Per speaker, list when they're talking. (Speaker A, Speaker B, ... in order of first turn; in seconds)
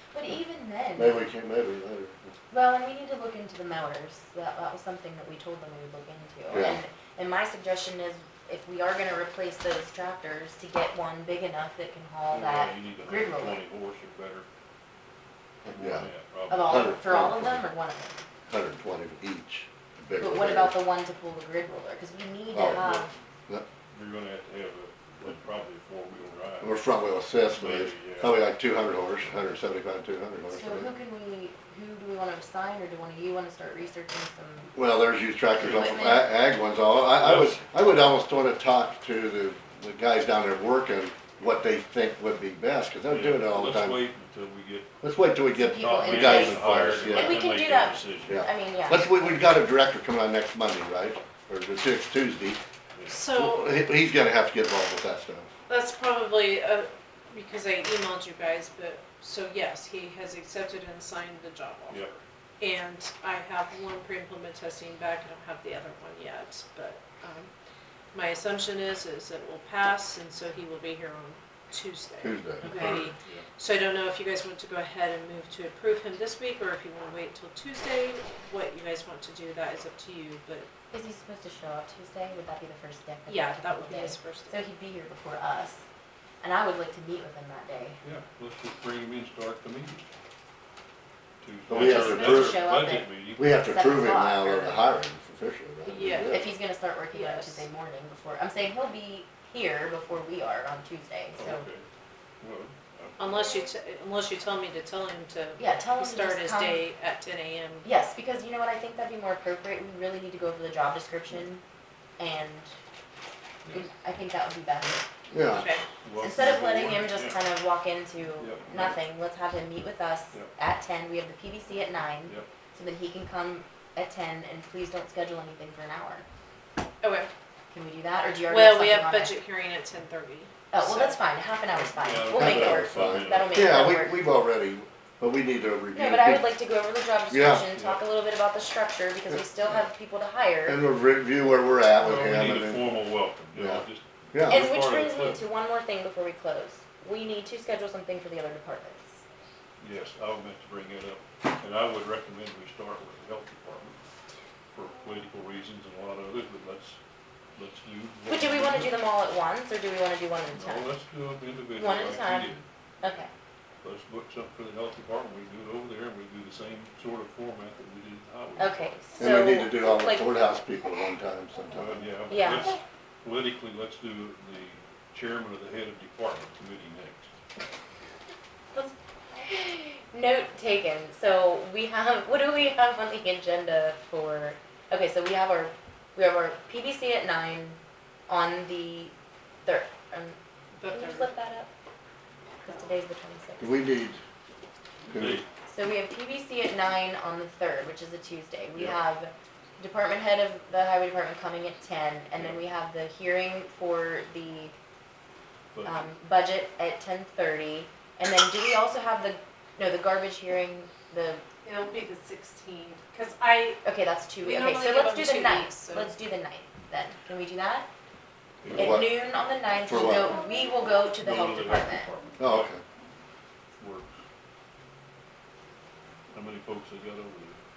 Speaker A: 0.1-1.2, 2.5-13.6, 16.5-18.2, 20.2-23.1, 30.5-34.7, 35.6-36.2, 45.5-49.1, 72.6-72.9, 80.9-85.8, 86.4-88.0, 91.7-94.9, 96.2-101.6, 105.6-106.8, 107.8-111.6, 112.2-112.7, 113.7-115.0, 116.2-126.2, 127.7-129.3, 130.7-134.3, 135.9-140.8, 144.5-149.2, 158.3-160.9, 161.8-163.3, 168.6-170.3, 172.3-172.8, 178.7-189.1, 189.6-190.4, 190.9-191.7, 192.6-193.8, 195.7-204.7, 205.8-211.4, 213.8-217.9, 218.7-222.1
Speaker B: 1.0-2.3, 6.5-6.8, 15.6-16.1, 16.6-17.6, 18.5-20.7, 22.5-23.6, 26.6-30.9, 34.7-44.0, 45.0-47.4, 48.2-52.6, 53.3-55.5, 72.2-73.1, 91.7-92.6, 93.4-96.5, 115.3-115.7, 132.3-136.5, 137.3-137.8, 140.7-142.9, 143.5-144.7, 169.2-172.1, 193.6-194.2, 195.1-195.4, 218.7-219.1, 219.8-220.3, 222.4-222.8
Speaker C: 12.3-14.5, 15.7-16.7, 23.9-26.8, 27.5-28.4, 35.6-35.8, 37.1-37.7, 43.1-45.0, 45.7-48.5, 61.9-62.1, 72.6-73.4, 88.0-90.1, 91.4-93.5, 101.4-101.8, 102.4-103.4, 116.0-117.4, 118.4-119.0, 131.7-133.8, 137.7-138.0, 142.0-145.4, 149.8-154.0, 154.7-157.0, 157.6-158.9, 160.5-162.6, 163.8-168.9, 171.7-177.3, 195.1-195.5, 205.7-206.1, 218.6-219.1, 219.9-220.2, 221.2-222.7, 223.8-224.1, 226.3-227.6
Speaker D: 53.1-53.8, 55.7-62.1, 62.6-67.5, 68.1-80.7, 83.3-84.6, 95.8-96.4, 97.1-97.7, 103.2-107.9, 115.5-115.8, 127.0-127.3, 128.4-131.2, 190.8-191.3, 211.6-213.8, 214.4-216.1